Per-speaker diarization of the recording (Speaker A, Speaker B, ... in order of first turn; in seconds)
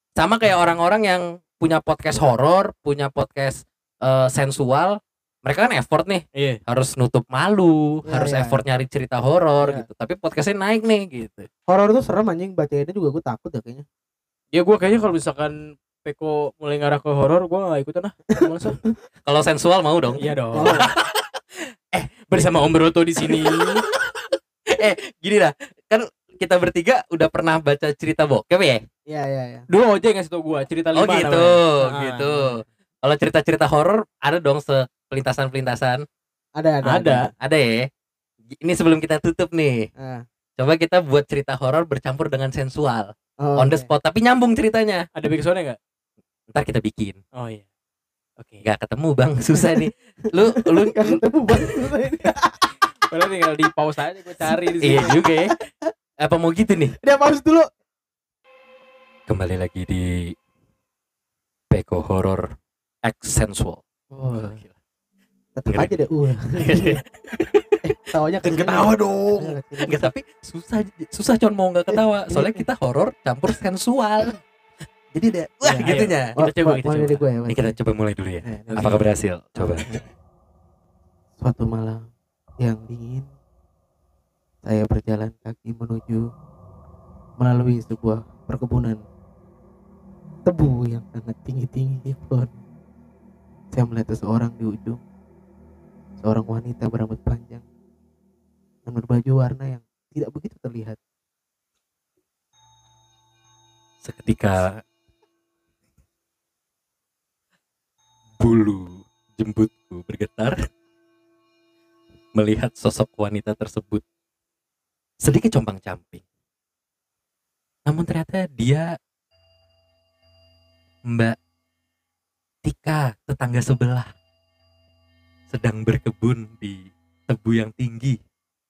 Speaker A: 0.2-11.5, 19.3-21.3, 21.9-22.5, 23.3-23.9, 24.7-28.8, 30.9-36.0, 37.4-37.9, 38.5-39.9, 40.6-45.1, 46.5-47.2, 48.6-51.8, 54.8-55.6, 56.2-57.0, 59.3-60.3, 61.7-62.5, 63.0-64.7, 66.5-67.8, 69.8-74.4, 75.1-76.4, 77.5-79.9, 104.0-104.8, 108.4-110.6, 112.4-114.0, 115.2-116.2, 117.9-118.9, 121.1-121.4, 122.6-124.1, 125.5-128.2
Speaker B: 6.3-6.6, 14.5-18.8, 20.2-20.8, 22.3-23.8, 29.7-32.5, 36.8-37.2, 45.2-45.8, 47.4-47.6, 53.0-55.2, 68.5-69.6, 75.8-77.2, 78.7-79.1
Speaker C: 8.1-8.6, 11.7-13.9, 18.4-18.9, 20.6-20.9, 29.1-29.6, 36.6-37.3, 40.0-40.2, 43.4-43.9, 50.8-52.5, 57.0-57.7, 64.1-64.6, 65.6-67.0, 67.8-70.1, 71.9-72.6, 75.6-77.8, 78.5-79.0, 81.4-82.1, 82.6-83.3, 84.6-86.2, 87.4-89.0, 90.5-92.6, 93.7-95.0, 96.2-97.7, 98.9-101.0